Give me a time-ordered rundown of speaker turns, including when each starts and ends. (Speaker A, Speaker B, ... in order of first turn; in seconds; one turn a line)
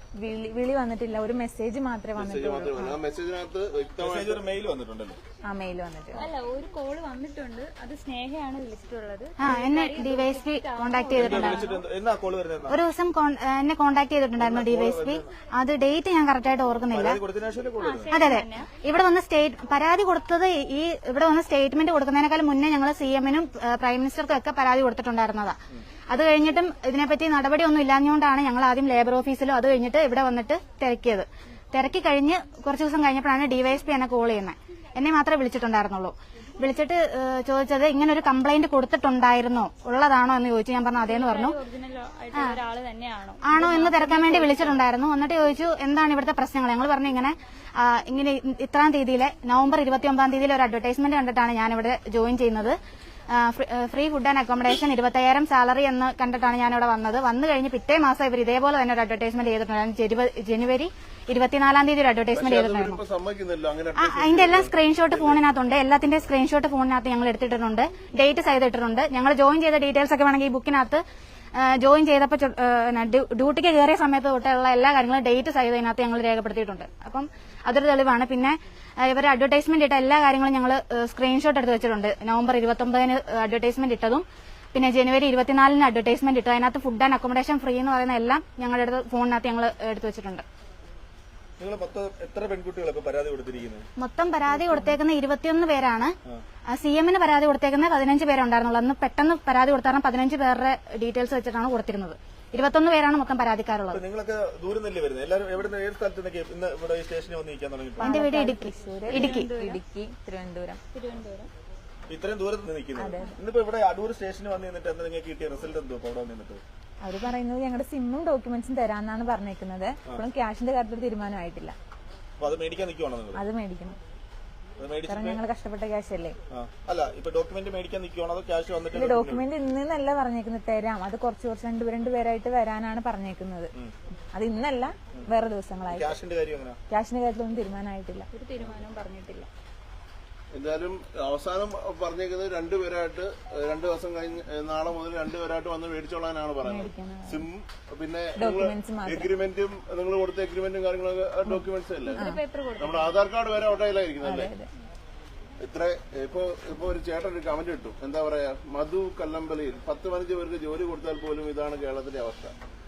Speaker A: 0.2-3.0
Speaker B: 2.1-4.4
Speaker C: 4.0-5.2
Speaker A: 5.5-6.3
Speaker D: 6.2-11.8
Speaker E: 9.4-11.7
Speaker C: 11.2-12.8
Speaker E: 12.7-17.2
Speaker C: 14.4-15.2
Speaker C: 16.9-18.1
Speaker D: 17.8-18.7
Speaker E: 18.1-25.6
Speaker E: 26.1-41.5
Speaker D: 41.0-44.8
Speaker E: 43.4-52.8
Speaker E: 53.3-63.0
Speaker B: 62.3-65.4
Speaker E: 64.0-71.0
Speaker E: 71.5-90.4
Speaker C: 91.6-93.8
Speaker E: 94.0-96.1
Speaker E: 96.7-104.0
Speaker C: 103.9-108.2
Speaker A: 108.0-110.8
Speaker E: 108.0-109.5
Speaker D: 109.1-109.8
Speaker D: 110.9-111.5
Speaker C: 112.1-116.6
Speaker A: 113.0-113.4
Speaker A: 117.0-121.8
Speaker C: 122.4-123.4
Speaker A: 123.3-124.0
Speaker C: 124.8-125.4
Speaker A: 125.1-126.4
Speaker C: 126.5-129.4
Speaker A: 128.9-133.7
Speaker A: 134.3-136.2
Speaker C: 135.9-136.8
Speaker A: 136.9-138.3
Speaker D: 138.3-139.5
Speaker B: 140.5-154.5
Speaker A: 146.6-147.4
Speaker A: 148.4-149.3
Speaker D: 152.1-153.1
Speaker A: 152.2-152.4
Speaker A: 154.2-154.7
Speaker B: 155.6-162.5